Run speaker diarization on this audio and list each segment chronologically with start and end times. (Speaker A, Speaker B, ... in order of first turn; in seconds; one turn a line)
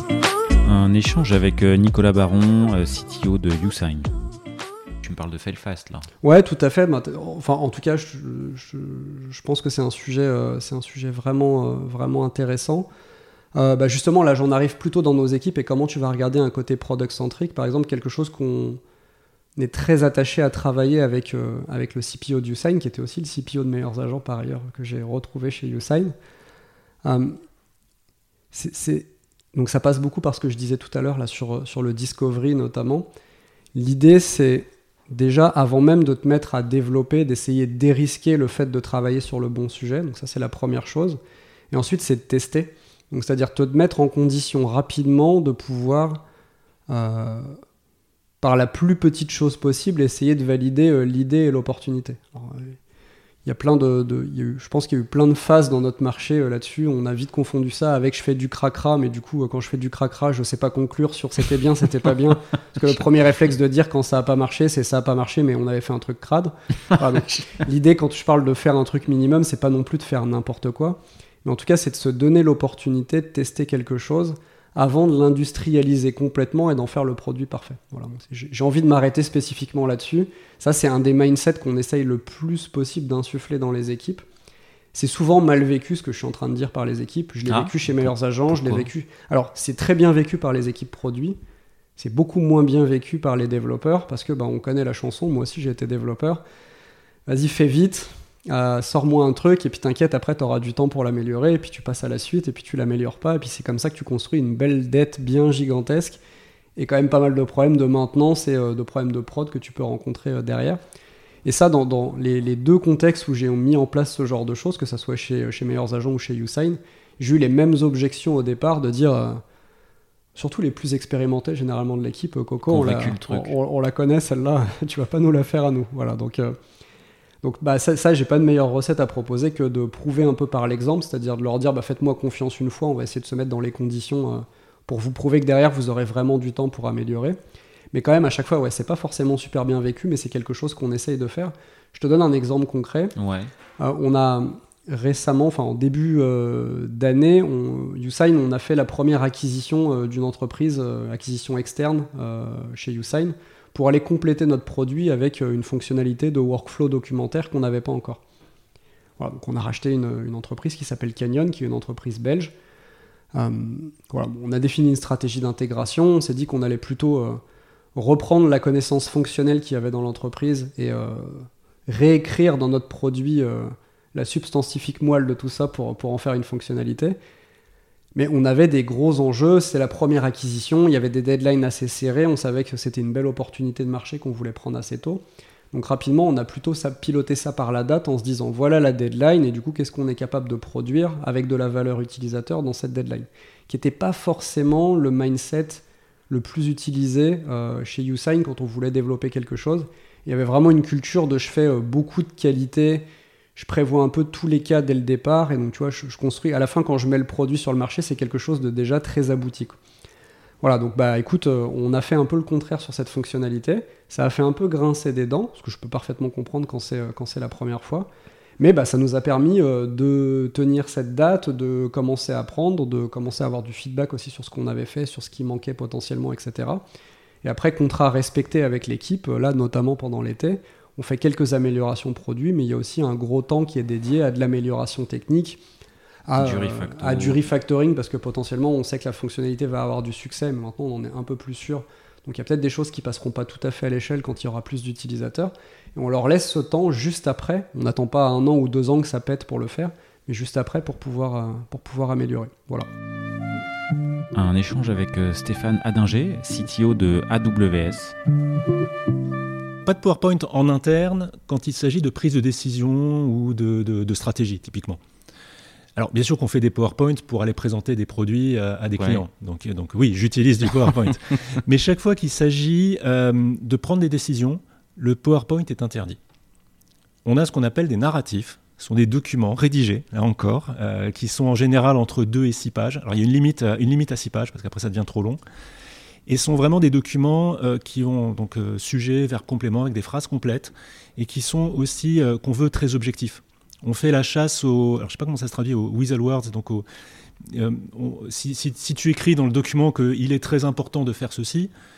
Speaker A: 0.6-4.1
Speaker A: 5.0-6.0
Speaker B: 6.2-12.9
Speaker B: 13.5-18.8
Speaker B: 19.6-26.1
Speaker B: 27.0-27.4
Speaker B: 28.5-33.1
Speaker B: 33.7-41.2
Speaker B: 41.7-46.2
Speaker B: 46.9-47.6
Speaker B: 48.4-52.8
Speaker B: 53.4-84.2
Speaker B: 84.9-91.4
Speaker A: 87.5-88.9
Speaker B: 92.0-96.4
Speaker B: 97.3-106.2
Speaker B: 106.8-110.8
Speaker B: 111.4-119.4
Speaker B: 120.3-126.6
Speaker A: 122.7-123.5
Speaker B: 127.4-137.4
Speaker B: 137.9-143.1
Speaker A: 143.2-143.5
Speaker B: 143.8-158.2
Speaker B: 159.2-162.5
Speaker B: 163.3-167.4
Speaker B: 167.9-177.2
Speaker B: 178.1-203.1
Speaker B: 203.6-209.8
Speaker B: 210.6-226.8
Speaker B: 227.4-235.6
Speaker B: 236.3-252.9
Speaker A: 236.3-237.4
Speaker A: 254.3-258.1
Speaker C: 259.8-265.0
Speaker C: 265.9-276.2
Speaker A: 268.9-269.2
Speaker C: 277.2-285.4
Speaker C: 286.3-296.8
Speaker C: 297.4-301.7